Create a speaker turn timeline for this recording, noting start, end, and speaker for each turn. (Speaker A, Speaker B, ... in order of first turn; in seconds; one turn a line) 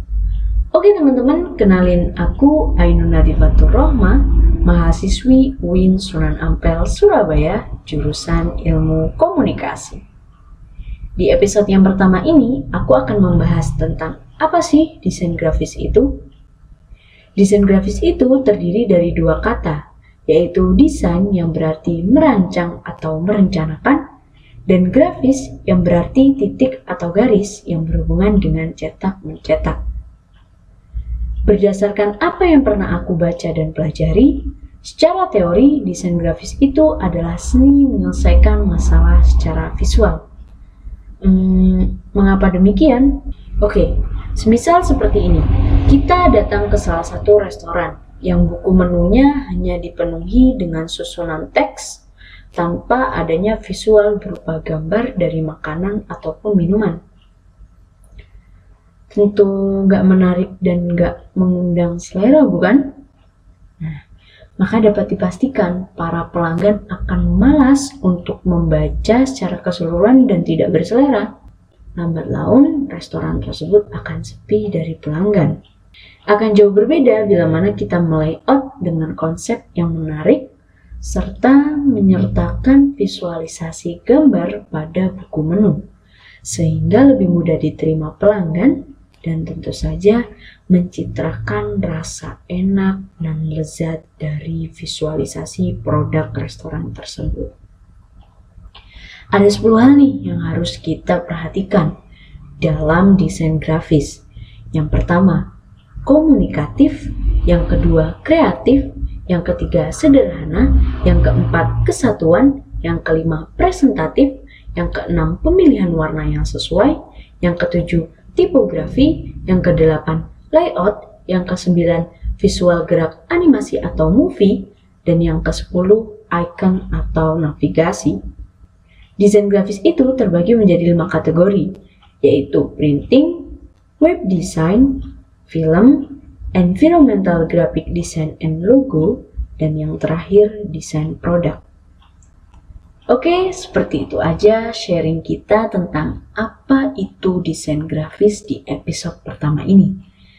Speaker A: 0.7-10.0
Speaker A: 11.2-16.2
Speaker A: 17.4-24.0
Speaker A: 24.7-29.8
Speaker A: 31.4-40.2
Speaker A: 41.2-57.0
Speaker A: 59.1-62.9
Speaker A: 64.6-71.3
Speaker A: 72.0-75.6
Speaker A: 76.3-85.8
Speaker A: 86.4-97.5
Speaker A: 99.3-101.9
Speaker A: 102.6-105.5
Speaker A: 106.0-128.2
Speaker A: 129.2-141.6
Speaker A: 143.1-150.0